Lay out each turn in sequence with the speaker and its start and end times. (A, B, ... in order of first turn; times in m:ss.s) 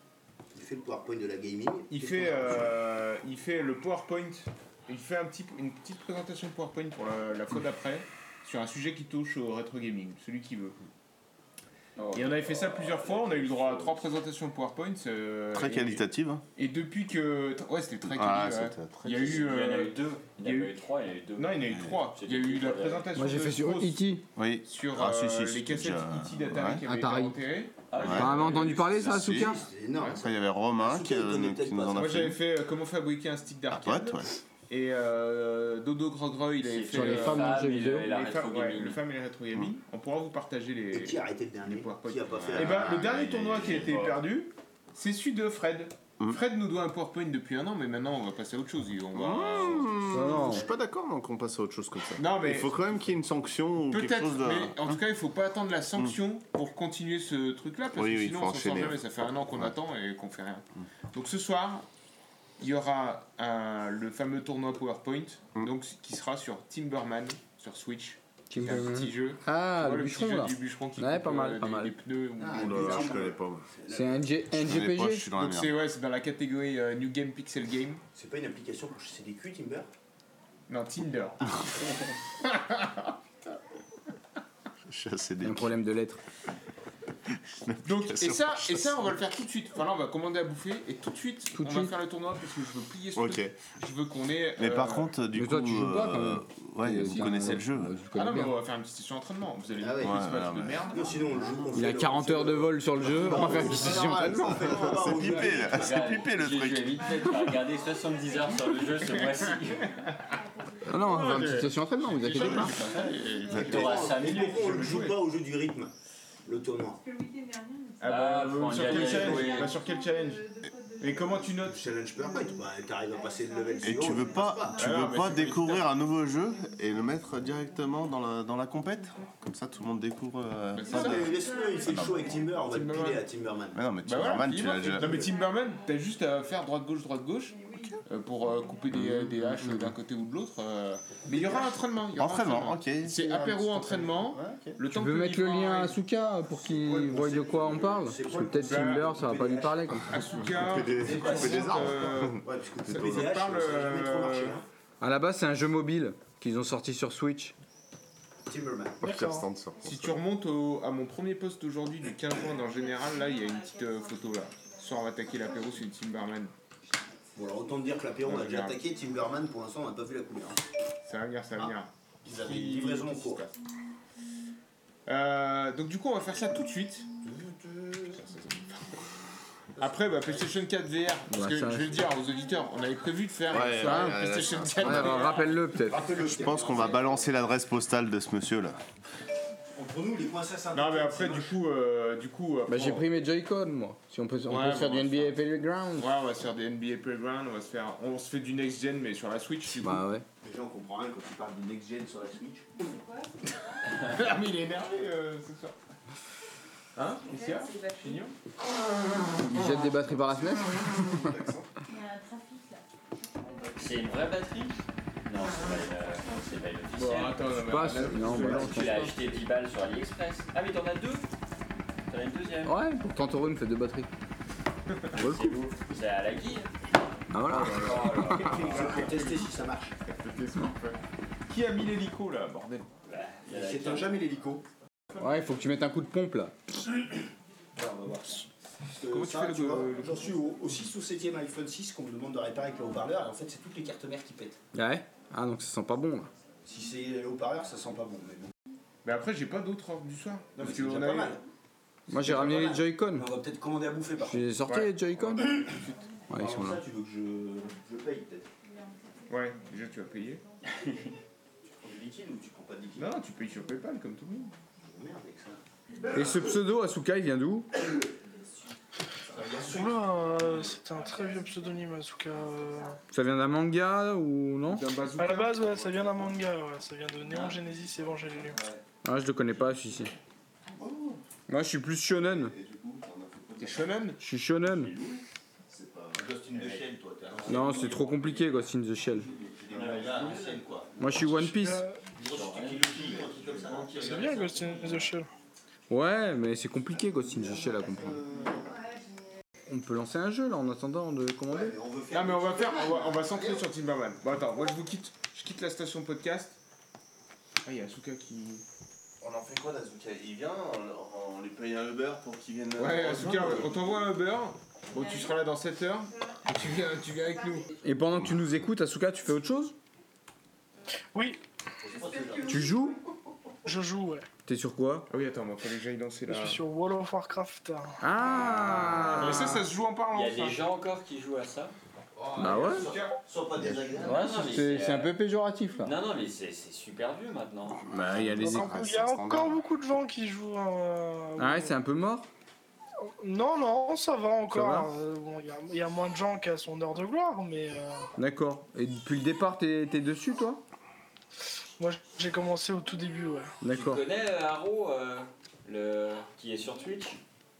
0:00.5-0:02.8 A
0:01.9-0:10.8 B
0:12.0-0:14.1 C
0:12.1-0:16.0 B
0:15.5-0:16.4 D
0:16.6-0:20.7 B
0:18.0-0:19.5 D
0:19.0-0:23.1 C
0:21.4-0:24.0 B
0:23.1-0:24.2 E
0:24.4-0:26.8 D
0:24.6-0:28.4 B
0:26.8-0:27.4 E
0:27.9-0:28.9 C
0:28.0-0:32.4 D
0:28.1-0:29.6 E
0:29.1-0:32.2 A
0:32.0-0:50.0 B
0:33.7-0:34.4 D
0:36.6-0:39.0 C
0:36.9-0:38.1 E
0:40.9-0:43.2 A
0:42.4-0:44.2 D
0:49.1-0:55.0 D
0:50.1-0:50.6 E
0:52.2-0:52.8 B
0:53.9-1:01.8 B
0:57.9-0:59.7 D
1:02.6-1:13.2 B
1:08.5-1:11.9 E
1:12.4-1:14.3 A
1:12.5-1:13.6 D
1:13.9-1:15.3 E
1:14.5-1:15.8 D
1:15.3-1:18.0 B
1:18.1-1:19.9 A
1:20.7-1:21.7 B
1:22.4-1:23.1 B
1:24.8-1:25.8 D
1:25.4-1:26.2 E
1:27.3-1:29.1 D
1:27.8-1:35.1 B
1:31.5-1:31.9 E
1:33.1-1:33.6 D
1:34.6-1:38.0 D
1:35.3-1:38.5 E
1:38.1-1:41.2 B
1:39.8-1:46.1 A
1:40.0-1:41.1 D
1:41.7-1:44.8 E
1:43.8-1:47.0 D
1:44.6-1:45.6 B
1:45.6-1:50.0 C
1:46.8-1:51.6 F
1:49.2-1:50.2 B
1:50.9-1:52.8 E
1:51.0-1:55.2 B
1:52.7-1:54.9 C
1:52.8-1:54.1 F
1:52.8-1:55.9 A
1:56.4-1:57.0 A
1:56.9-2:09.4 F
1:58.0-2:00.4 B
1:58.0-1:59.7 C
1:58.9-1:59.5 A
2:01.0-2:01.8 B
2:01.6-2:04.9 A
2:03.8-2:11.3 D
2:04.8-2:05.9 B
2:10.7-2:11.3 B
2:10.8-2:12.6 F
2:10.9-2:13.9 A
2:11.8-2:12.4 D
2:12.6-2:13.2 B
2:13.7-2:15.2 D
2:14.0-2:26.0 B
2:14.9-2:16.5 F
2:15.0-2:15.3 A
2:17.4-2:18.9 F
2:18.9-2:19.9 D
2:21.2-2:21.7 A
2:22.1-2:24.8 D
2:24.9-2:30.1 E
2:26.6-2:30.2 A
2:28.5-2:29.2 B
2:30.0-2:34.6 B
2:30.4-2:33.3 D
2:30.9-2:34.6 A
2:35.0-2:37.5 E
2:38.4-2:39.0 A
2:39.0-2:39.4 G
2:39.0-2:40.2 D
2:39.8-2:46.5 B
2:42.4-2:46.2 F
2:47.3-2:50.6 A
2:48.2-2:48.8 B
2:51.0-2:53.5 B
2:52.2-2:53.4 A
2:55.0-2:57.1 B
2:57.2-2:58.3 A
2:58.1-2:59.0 B
2:59.8-3:00.6 A
2:59.8-3:05.6 B
3:01.3-3:02.0 E
3:03.5-3:05.3 D
3:03.8-3:06.0 E
3:05.7-3:07.3 A
3:06.2-3:08.8 D
3:09.7-3:11.5 A
3:10.7-3:13.1 B
3:12.7-3:16.1 E
3:14.5-3:15.4 B
3:16.0-3:20.0 B
3:19.8-3:20.2 E
3:20.4-3:22.7 A
3:22.8-3:24.0 F
3:24.0-3:25.7 B
3:26.9-3:28.3 B
3:27.2-3:28.3 F
3:29.4-3:29.8 B
3:29.4-3:31.3 E
3:30.2-3:31.7 D
3:31.9-3:33.9 F
3:33.8-3:41.3 C
3:36.9-3:39.1 B
3:37.5-3:39.1 E
3:42.1-3:42.8 C
3:42.6-3:44.1 E
3:45.1-3:45.6 E
3:45.1-3:46.9 C
3:47.3-3:48.4 E
3:47.5-3:49.5 B
3:47.5-3:49.2 C
3:48.4-3:50.0 A
3:50.0-3:51.0 B
3:51.5-3:52.9 B
3:53.0-3:54.1 C
3:53.5-3:54.6 A
3:55.2-3:56.5 E
3:57.8-4:04.6 A
3:59.1-4:00.3 B
4:04.7-4:06.3 E
4:06.6-4:08.5 A
4:09.0-4:11.4 B
4:10.6-4:11.4 A
4:12.1-4:13.3 E
4:12.1-4:14.8 A
4:14.3-4:15.5 E
4:14.6-4:15.9 B
4:15.4-4:18.5 A
4:16.3-4:16.8 E
4:18.7-4:20.4 F
4:19.3-4:20.4 B
4:20.7-4:21.1 C
4:21.6-4:23.1 A
4:23.0-4:24.5 B
4:24.8-4:25.6 A
4:26.1-4:27.7 E
4:29.2-4:30.7 A
4:29.6-4:33.0 G
4:31.0-4:31.7 F
4:32.3-4:32.9 F
4:33.1-4:34.9 E
4:34.7-4:35.7 B
4:35.1-4:38.6 G
4:39.0-4:40.1 E
4:40.7-4:41.2 D
4:41.5-4:42.5 E
4:42.1-4:44.1 D
4:43.6-4:44.2 B
4:44.2-4:44.9 E
4:44.8-4:45.2 C
4:45.7-4:46.8 D
4:46.1-4:48.5 A
4:47.4-4:49.3 E
4:47.5-4:48.1 C
4:49.3-4:51.5 A
4:49.7-4:50.6 C
4:51.0-4:51.8 E
4:51.4-4:52.0 G
4:52.1-4:55.0 A
4:52.2-4:54.5 C
4:54.0-4:55.3 G
4:55.9-4:58.2 E
4:57.1-4:58.7 A
4:58.5-4:59.3 F
4:59.7-5:01.8 E
5:01.5-5:03.7 A
5:02.1-5:06.6 B
5:07.6-5:08.6 B
5:09.2-5:13.8 D
5:12.8-5:17.7 B
5:14.9-5:15.4 F
5:16.1-5:16.4 F
5:17.0-5:17.6 F
5:17.8-5:19.8 E
5:21.1-5:21.4 G
5:21.8-5:22.7 A
5:22.0-5:22.9 F
5:22.5-5:23.0 E
5:23.6-5:24.3 G
5:24.4-5:25.1 E
5:25.1-5:26.6 B
5:26.3-5:28.0 G
5:28.0-5:29.6 E
5:28.5-5:30.6 B
5:30.1-5:31.7 C
5:32.2-5:34.3 A
5:32.3-5:33.2 B
5:32.4-5:32.9 E
5:34.0-5:35.1 C
5:34.0-5:36.0 E
5:35.8-5:37.8 C
5:37.8-5:39.6 D
5:37.9-5:38.7 E
5:38.4-5:41.8 G
5:41.4-5:42.3 E
5:43.0-5:48.1 G
5:44.5-5:44.9 E
5:48.2-5:50.6 E
5:51.8-5:53.5 G
5:53.6-5:54.0 E
5:53.7-5:57.2 C